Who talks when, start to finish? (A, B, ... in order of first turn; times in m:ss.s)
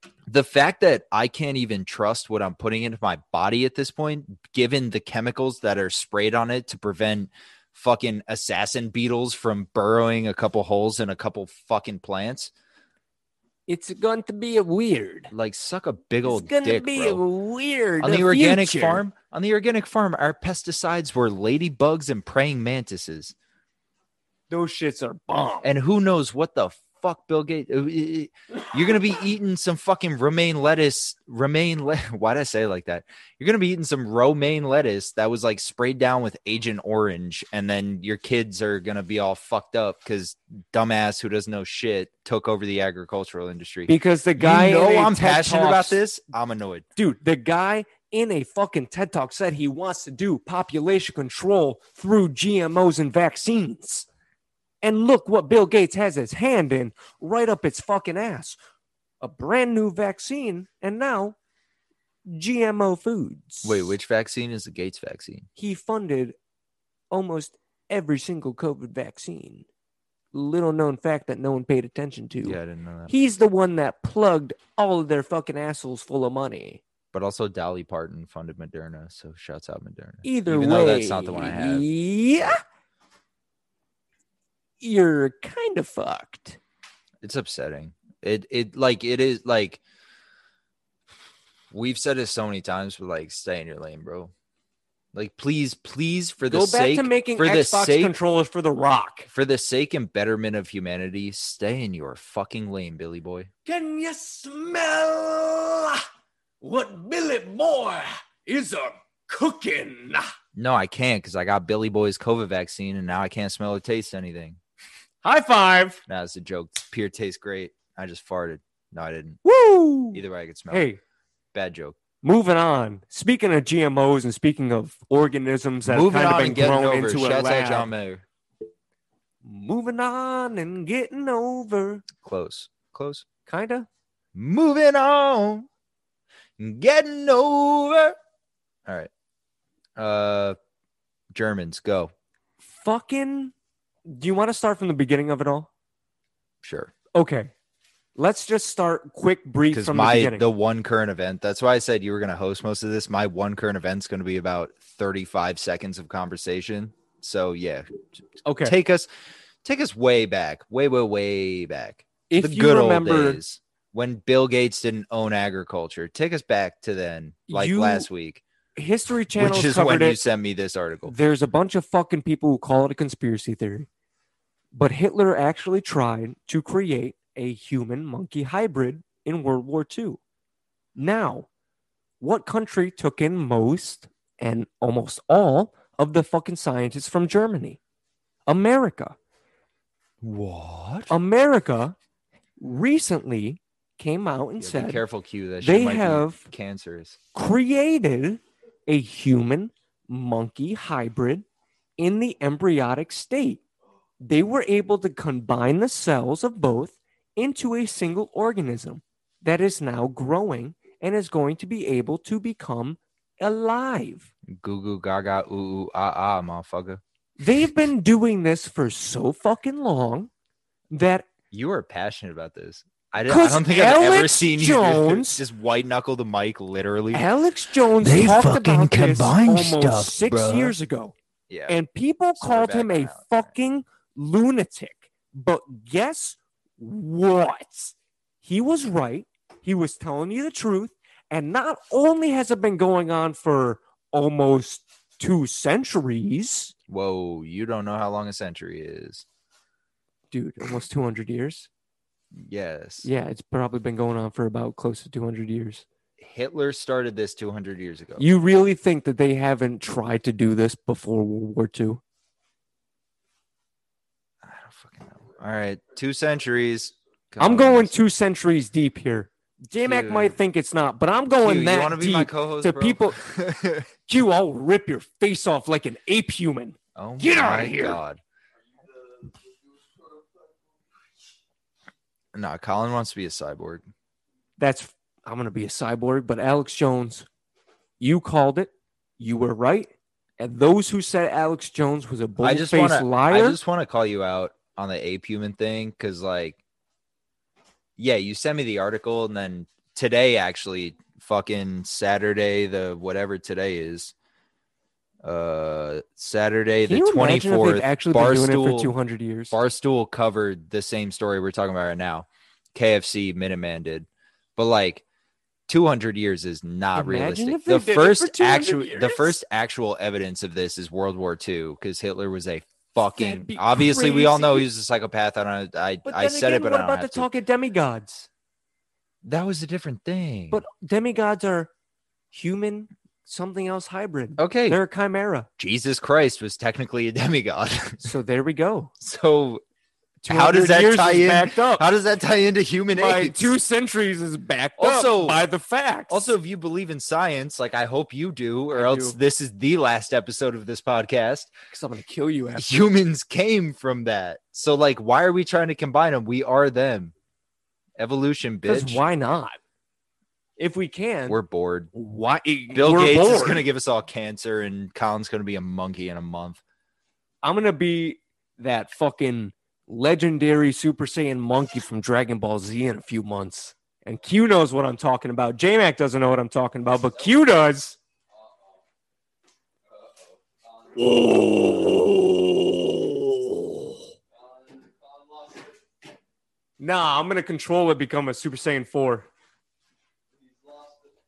0:00.3-0:12.5 A
0:13.7-0:15.3 B
0:15.3-0:17.2 A
0:16.2-0:19.0 B
0:18.0-0:23.3 A
0:24.5-0:25.7 B
0:25.6-0:46.8 A
0:43.9-0:46.0 B
0:47.0-0:54.1 B
0:54.8-0:58.6 B
0:59.2-1:01.4 B
1:02.2-1:03.9 B
1:03.6-1:05.5 A
1:05.6-1:06.4 B
1:07.1-1:09.6 B
1:10.3-1:16.8 B
1:12.4-1:13.1 A
1:17.1-1:21.9 A
1:20.2-1:22.6 B
1:24.8-1:26.6 B
1:27.2-1:29.8 A
1:31.7-1:34.3 A
1:35.1-1:38.1 A
1:36.5-1:39.3 B
1:39.3-1:43.5 A
1:43.6-1:46.0 B
1:46.6-1:50.3 B
1:50.5-1:54.6 A
1:55.2-1:56.0 B
1:56.1-1:59.4 A
1:59.4-2:01.0 B
2:00.1-2:00.9 A
2:01.5-2:02.0 A
2:02.2-2:07.9 B
2:05.9-2:08.2 A
2:09.4-2:12.0 B
2:12.2-2:13.2 A
2:13.4-2:13.9 B
2:14.3-2:15.7 A
2:16.6-2:18.2 A
2:20.0-2:20.6 A
2:21.3-2:22.1 A
2:22.7-2:23.5 B
2:24.1-2:25.7 B
2:26.6-2:26.9 A
2:27.1-2:27.5 B
2:28.2-2:30.4 B
2:29.7-2:38.0 A
2:38.4-2:38.8 B
2:38.6-2:39.1 A
2:39.6-2:48.4 A
2:42.3-2:43.4 B
2:47.5-2:48.1 B
2:48.7-2:50.2 B
2:49.3-2:51.1 A
2:51.0-2:53.9 B
2:54.7-3:00.2 B
3:01.0-3:01.5 B
3:02.2-3:07.8 B
3:08.5-3:09.2 B
3:10.2-3:11.1 A
3:11.1-3:12.0 B
3:12.6-3:15.0 B
3:14.6-3:17.2 A
3:15.6-3:16.5 B
3:17.3-3:21.4 B
3:22.0-3:23.6 B
3:24.2-3:34.3 B
3:34.5-3:37.0 A
3:37.4-3:40.3 B
3:40.9-3:41.2 B
3:41.5-3:47.2 A
3:43.2-3:45.4 B
3:47.1-3:51.1 B
3:48.0-3:50.8 A
3:51.5-3:51.8 A
3:51.7-4:06.7 B
3:52.4-3:53.5 A
4:06.9-4:09.2 A
4:10.3-4:11.7 B
4:12.3-4:13.1 A
4:13.0-4:15.8 B
4:16.2-4:18.2 A
4:18.2-4:22.0 B
4:24.4-4:27.9 A
4:27.4-4:33.2 B
4:29.8-4:30.4 A
4:31.4-4:33.9 A
4:34.1-4:38.0 B
4:37.0-4:38.2 A
4:42.3-4:43.8 A
4:44.6-4:47.3 B
4:48.0-4:53.6 B
4:52.4-4:56.6 A
4:58.0-5:04.1 A
5:05.2-5:08.9 A
5:06.8-5:09.6 B
5:09.5-5:15.0 A
5:15.7-5:27.3 A
5:16.9-5:19.4 B
5:23.1-5:24.7 B
5:26.0-5:28.3 B
5:29.2-5:30.6 A
5:30.5-5:31.7 B
5:32.3-5:35.5 B
5:34.4-5:34.8 A
5:35.6-5:38.1 A
5:38.0-5:38.9 B
5:39.0-5:39.6 A
5:40.2-5:41.8 B
5:40.3-5:43.5 A
5:42.9-5:46.4 B
5:44.8-5:45.4 A
5:46.1-5:51.5 A
5:48.7-5:49.2 B
5:51.7-5:52.8 B
5:52.6-5:57.1 A
5:58.0-5:59.0 A
5:58.6-5:59.6 B
6:00.6-6:01.4 B
6:01.3-6:01.9 A
6:01.9-6:03.6 B
6:02.7-6:06.6 A
6:07.4-6:18.0 B
6:20.9-6:24.1 B
6:26.8-6:29.3 B